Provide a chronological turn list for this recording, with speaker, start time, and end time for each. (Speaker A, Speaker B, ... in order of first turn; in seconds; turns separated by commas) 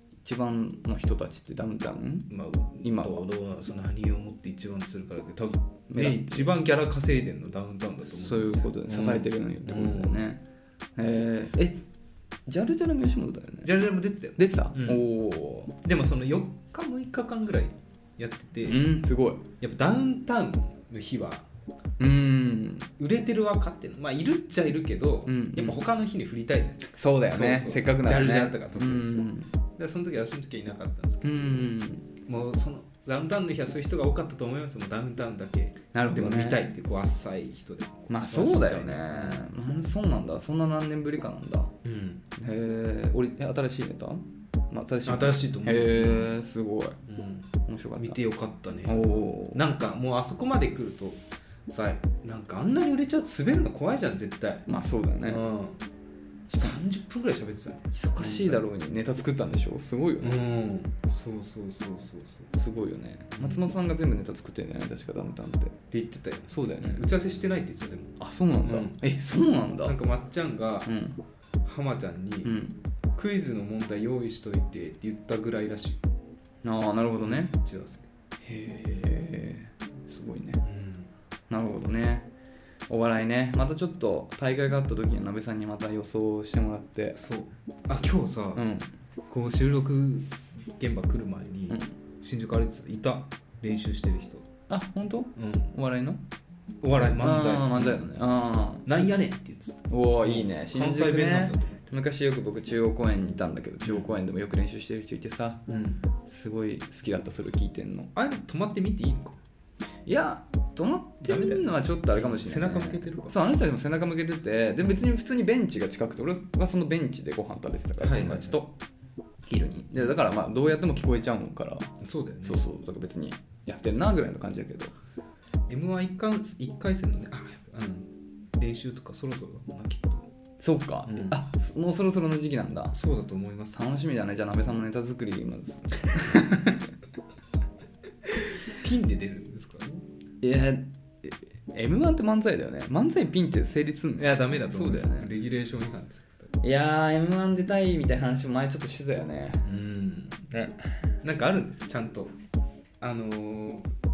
Speaker A: 0.2-2.3, Speaker B: 2.3-10.2, Speaker A: 2.8-3.2, Speaker A: 5.9-6.5, Speaker A: 8.1-10.4, Speaker A: 10.9-11.8, Speaker A: 12.4-13.7, Speaker B: 13.6-15.0, Speaker A: 14.4-15.8, Speaker B: 15.8-18.9, Speaker A: 18.6-19.4, Speaker B: 19.6-21.5, Speaker A: 22.0-22.9, Speaker B: 23.0-31.5, Speaker A: 25.2-25.8, Speaker A: 26.9-29.5, Speaker A: 31.2-32.1, Speaker B: 32.2-39.5, Speaker A: 35.9-36.6, Speaker A: 38.1-41.7, Speaker B: 41.8-42.2, Speaker A: 42.4-47.0, Speaker B: 45.0-46.4, Speaker B: 47.1-54.6, Speaker A: 47.6-48.2, Speaker A: 48.9-49.6, Speaker A: 54.7-55.4, Speaker B: 55.2-55.8, Speaker A: 56.5-56.8, Speaker B: 56.5-58.6, Speaker A: 57.9-60.4, Speaker B: 60.2-62.5, Speaker A: 62.5-65.8, Speaker B: 63.3-63.6, Speaker B: 65.9-69.0, Speaker A: 66.5-67.0, Speaker A: 68.2-70.0, Speaker B: 69.8-70.9, Speaker A: 70.8-71.2, Speaker B: 71.6-72.6, Speaker A: 72.4-72.8, Speaker B: 73.2-76.0, Speaker A: 76.6-77.5, Speaker B: 77.2-78.1, Speaker A: 78.4-80.6, Speaker B: 80.6-81.1, Speaker A: 81.5-82.3, Speaker A: 82.9-87.2, Speaker B: 87.1-88.7, Speaker A: 87.9-88.9, Speaker B: 89.3-94.5, Speaker A: 94.7-96.2, Speaker B: 95.3-95.7, Speaker B: 96.8-98.1, Speaker A: 97.2-98.9, Speaker B: 98.8-101.9, Speaker A: 99.9-105.6, Speaker B: 103.8-104.2, Speaker B: 105.7-106.0, Speaker A: 106.2-108.1, Speaker B: 108.1-109.4, Speaker A: 110.0-118.7, Speaker B: 111.2-113.4, Speaker B: 118.0-118.6, Speaker A: 119.5-124.9, Speaker B: 122.0-122.7, Speaker B: 125.7-130.3, Speaker A: 130.6-132.9, Speaker B: 131.1-131.4, Speaker B: 132.9-133.8, Speaker A: 133.7-136.9, Speaker B: 138.7-140.0, Speaker A: 140.4-145.3, Speaker B: 144.2-146.5, Speaker A: 146.6-149.7, Speaker B: 149.6-150.4, Speaker A: 150.5-150.8, Speaker B: 151.2-152.3, Speaker B: 153.0-153.9